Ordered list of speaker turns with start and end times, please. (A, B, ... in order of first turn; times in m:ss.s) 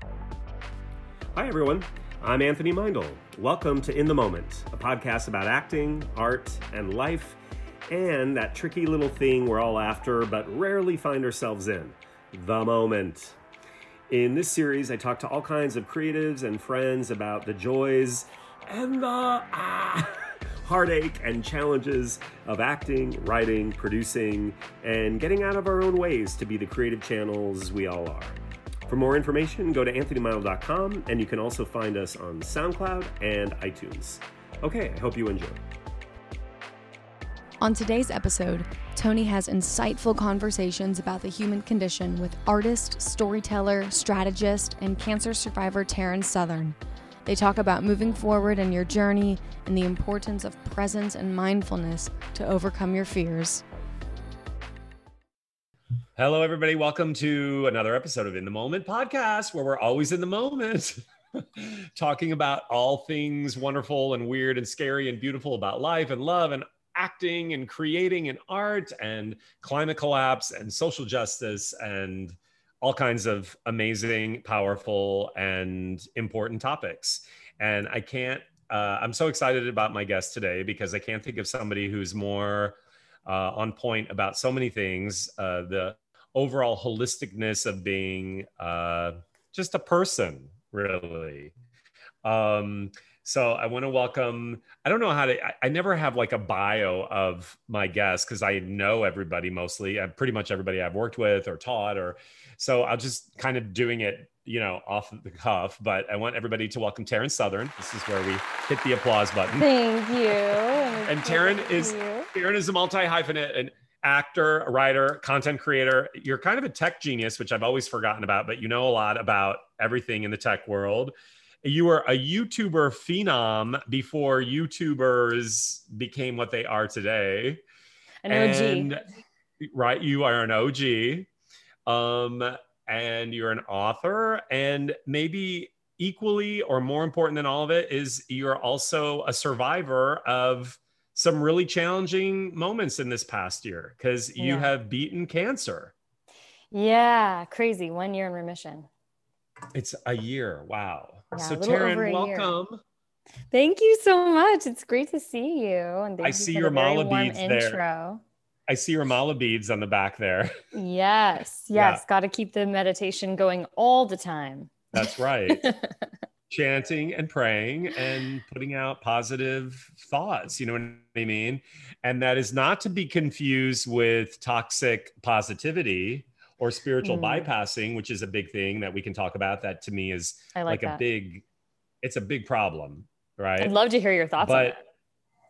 0:01.3-0:13.4 A
0:14.1-0:35.6 A
0:37.6-0:46.8 B
0:47.3-0:53.6 B
0:56.2-1:31.5 A
1:32.2-1:49.7 A
1:49.5-1:52.3 C
1:51.0-2:07.6 A
2:08.2-2:08.9 C
2:08.3-2:09.0 A
2:09.6-2:11.3 A
2:11.9-2:25.9 A
2:24.4-2:24.7 C
2:26.7-2:28.9 C
2:29.7-2:32.8 A
2:31.3-2:32.5 C
2:33.5-2:38.2 C
2:36.2-2:37.8 A
2:38.7-2:40.5 A
2:40.7-2:44.9 C
2:41.7-2:42.0 A
2:44.9-2:45.7 A
2:45.5-2:46.0 C
2:46.5-3:01.4 A
2:57.0-2:57.5 C
3:00.6-3:01.0 C
3:02.0-3:03.7 A
3:03.6-3:04.8 C
3:04.4-3:04.8 A